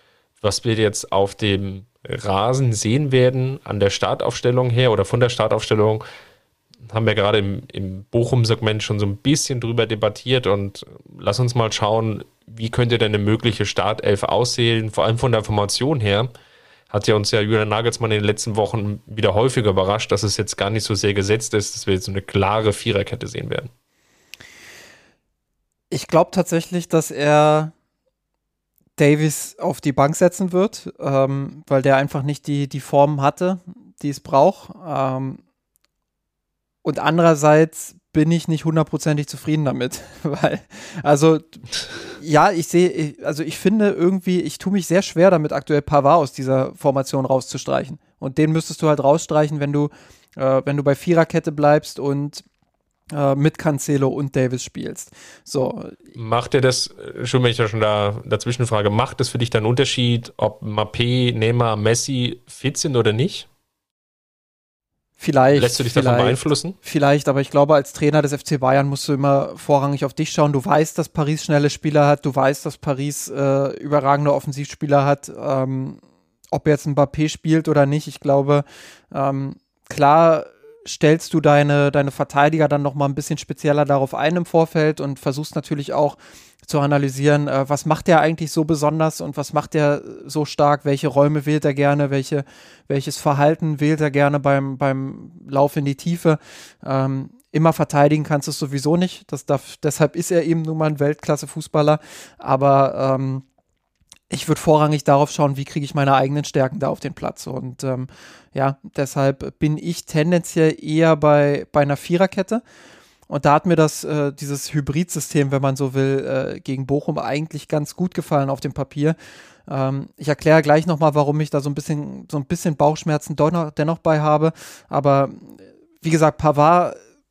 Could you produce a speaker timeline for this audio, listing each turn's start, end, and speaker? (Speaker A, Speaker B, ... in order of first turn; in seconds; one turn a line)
Speaker A: 0.4-6.0
Speaker A: 6.8-16.3
Speaker A: 16.9-23.7
Speaker B: 25.9-27.7
Speaker B: 29.0-35.4
Speaker B: 36.8-52.4
Speaker B: 53.1-56.0
Speaker A: 56.1-63.5
Speaker B: 65.2-76.0
Speaker A: 65.5-66.8
Speaker B: 76.5-103.4
Speaker B: 104.3-112.6
Speaker B: 113.3-127.0